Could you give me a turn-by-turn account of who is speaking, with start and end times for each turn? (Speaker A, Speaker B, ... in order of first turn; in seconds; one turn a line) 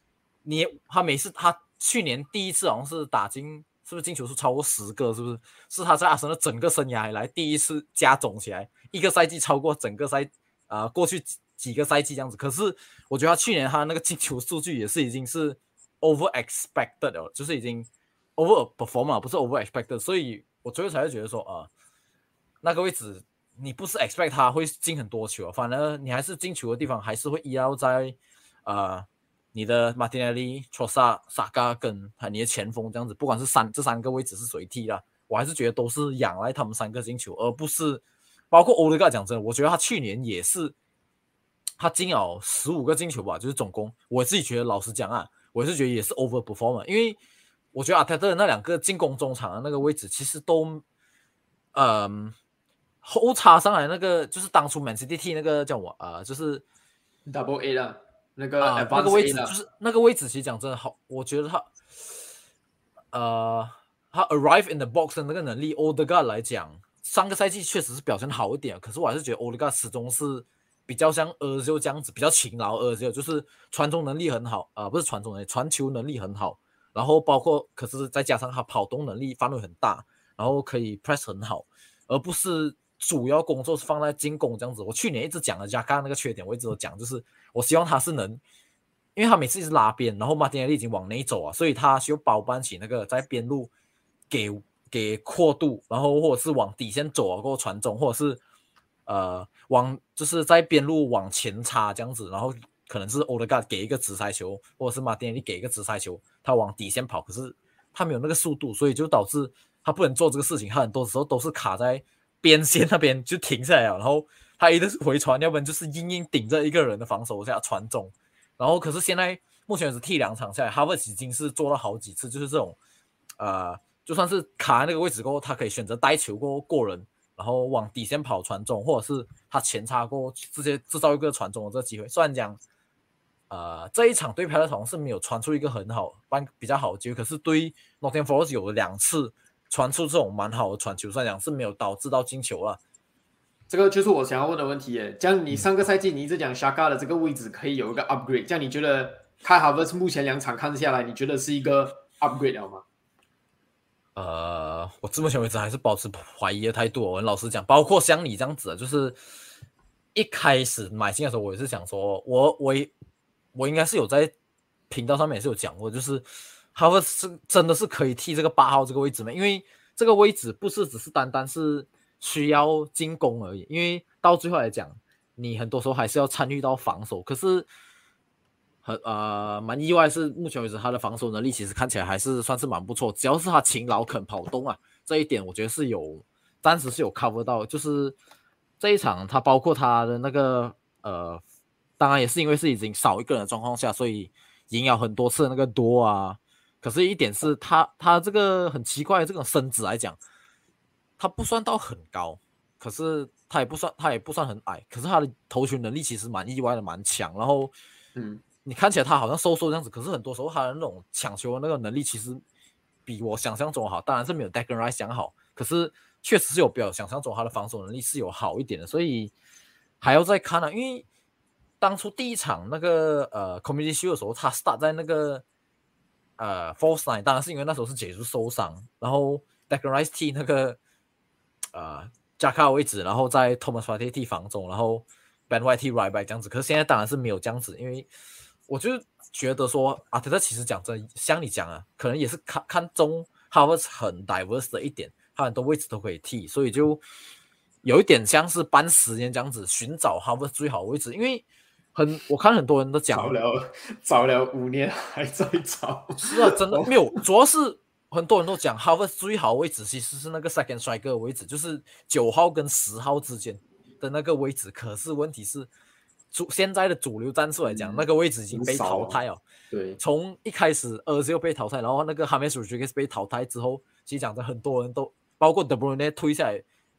Speaker A: 0.4-21.7
Speaker A: 22.6-40.7
Speaker A: 41.8-47.2
Speaker A: 47.7-50.8
Speaker A: 51.7-52.3
Speaker A: 53.0-56.6
Speaker B: 57.2-59.5
Speaker A: 58.6-61.7
Speaker A: 63.1-88.4
Speaker A: 89.2-93.7
Speaker A: 94.3-98.4
Speaker A: 99.0-122.8
Speaker A: 123.4-132.6
Speaker A: 133.5-142.8
Speaker B: 143.7-152.8
Speaker A: 154.2-159.2
Speaker A: 160.1-162.9
Speaker A: 163.5-164.3
Speaker A: 164.9-177.7
Speaker A: 178.8-188.2
Speaker A: 188.8-191.4
Speaker A: 192.0-200.2
Speaker A: 201.2-207.7
Speaker B: 208.2-208.4
Speaker A: 208.6-212.4
Speaker A: 213.1-219.3
Speaker A: 220.0-221.0
Speaker A: 221.8-225.4
Speaker A: 226.4-230.8
Speaker A: 231.7-238.1
Speaker A: 238.7-247.0
Speaker A: 247.8-253.3
Speaker B: 253.1-257.2
Speaker A: 256.2-265.7
Speaker A: 266.3-269.4
Speaker B: 267.6-269.2
Speaker B: 269.7-270.0
Speaker A: 270.0-276.6